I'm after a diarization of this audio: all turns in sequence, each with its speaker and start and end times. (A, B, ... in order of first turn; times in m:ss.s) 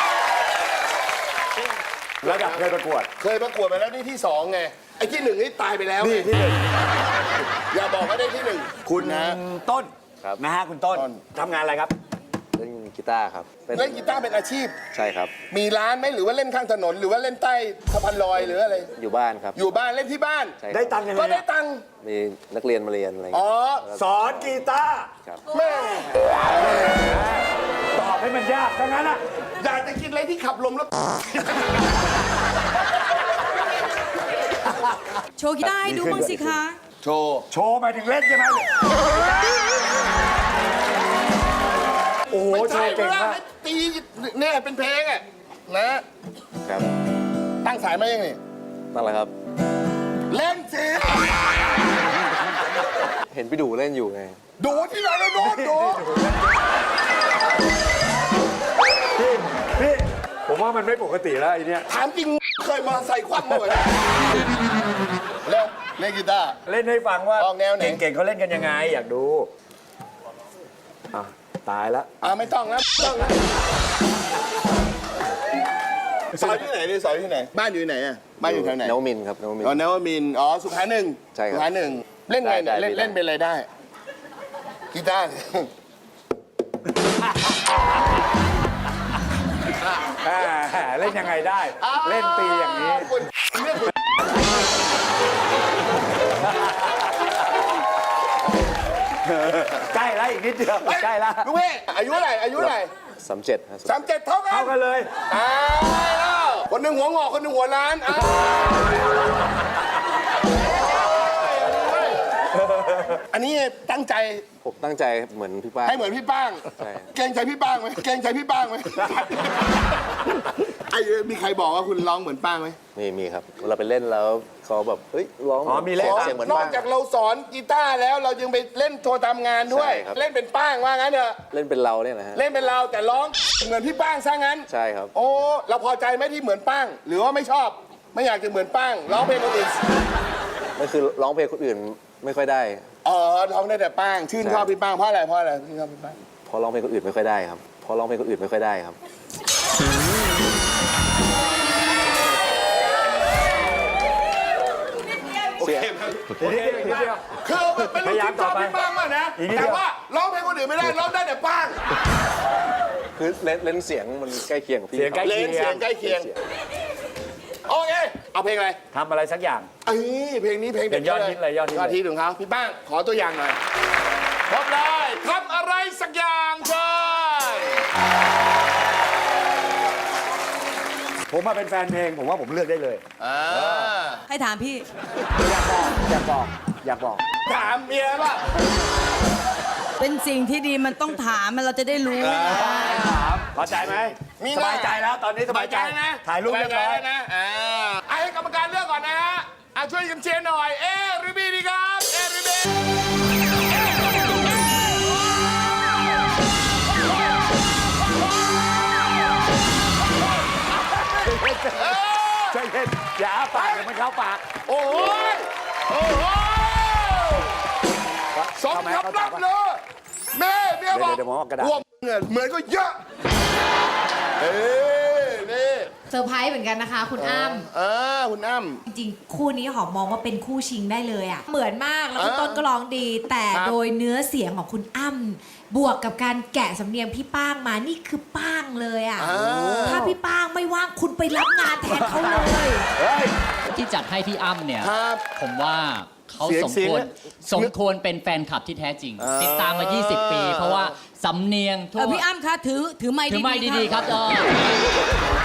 0:02.2-0:03.1 A
0:02.2-0:06.3 B
0:06.0-0:06.6 A
0:07.7-0:09.4 B
0:08.8-0:11.9 A
0:12.6-0:14.2 C
0:13.7-0:14.8 B
0:14.9-0:15.4 C
0:15.5-0:18.9 B
0:19.0-0:19.6 C
0:19.5-0:20.6 B
0:20.6-0:21.1 C
0:20.7-0:21.4 A
0:21.1-0:21.8 B
0:22.0-0:24.3 C
0:23.3-0:23.9 B
0:23.9-0:25.1 A
0:25.5-0:27.0 B
0:26.6-0:29.2 A
0:29.6-0:31.7 B
0:34.7-0:35.0 A
0:35.4-0:36.8 D
0:35.7-0:36.6 A
0:37.0-0:37.5 B
0:37.5-0:39.1 A
0:42.3-0:43.4 A
0:42.4-0:46.0 B
0:47.6-0:48.4 B
0:48.9-0:49.3 C
0:50.3-0:51.7 B
0:53.3-0:54.4 C
0:54.6-0:56.0 B
0:55.4-0:56.6 A
0:59.2-1:01.9 A
1:01.9-1:04.0 B
1:05.4-1:06.6 B
1:06.7-1:09.5 A
1:07.4-1:08.0 B
1:11.1-1:12.3 A
1:12.2-1:13.4 B
1:16.3-1:19.0 B
1:18.4-1:19.8 C
1:19.6-1:23.7 B
1:21.3-1:21.7 C
1:22.4-1:23.2 C
1:24.9-1:25.7 B
1:30.2-1:33.1 A
1:31.8-1:33.9 B
1:36.5-1:36.7 A
1:39.2-1:41.5 A
1:40.9-1:42.9 B
1:42.6-1:44.0 C
1:43.9-1:44.7 B
1:44.5-1:45.1 A
1:45.3-1:48.9 B
1:50.8-1:52.2 B
1:52.7-1:53.1 A
1:53.3-1:54.4 B
1:54.6-1:56.2 C
1:55.8-1:59.7 B
1:56.7-1:57.1 C
2:00.9-2:02.8 B
2:03.0-2:06.9 C
2:05.7-2:06.8 A
2:06.0-2:11.4 B
2:09.7-2:10.2 C
2:11.5-2:12.4 C
2:12.3-2:19.8 B
2:14.7-2:15.1 C
2:20.8-2:22.9 C
2:23.0-2:26.2 B
2:24.4-2:24.7 C
2:26.5-2:29.0 C
2:35.6-2:36.9 C
2:35.6-2:41.8 B
2:36.4-2:37.2 A
2:38.0-2:38.8 A
2:39.4-2:39.8 A
2:43.2-2:45.5 C
2:44.9-2:46.3 A
2:45.2-2:46.3 B
2:47.7-2:48.8 B
2:48.9-2:49.7 A
2:49.8-2:53.6 B
2:50.9-2:52.0 A
2:54.5-2:57.8 B
3:01.3-3:03.7 A
3:03.2-3:04.2 B
3:04.3-3:04.8 D
3:05.4-3:07.2 A
3:07.4-3:08.5 B
3:10.0-3:13.0 D
3:12.2-3:13.2 B
3:12.6-3:17.0 A
3:14.4-3:22.7 B
3:23.7-3:24.1 B
3:28.5-3:29.1 B
3:30.7-3:32.6 B
3:31.2-3:34.5 A
3:33.5-3:33.9 B
3:34.7-3:37.6 B
3:38.3-3:39.4 A
3:38.6-3:39.8 B
3:40.3-3:43.0 B
3:40.9-3:41.8 A
3:44.4-3:45.9 B
3:46.1-3:47.7 E
3:47.2-3:48.8 B
3:48.9-4:02.9 E
3:52.2-3:52.6 B
3:59.2-4:00.1 B
3:59.4-4:00.1 A
4:03.0-4:03.3 A
4:03.7-4:12.2 F
4:04.8-4:05.3 B
4:06.4-4:07.1 A
4:09.2-4:10.9 B
4:12.0-4:14.4 D
4:13.3-4:14.8 F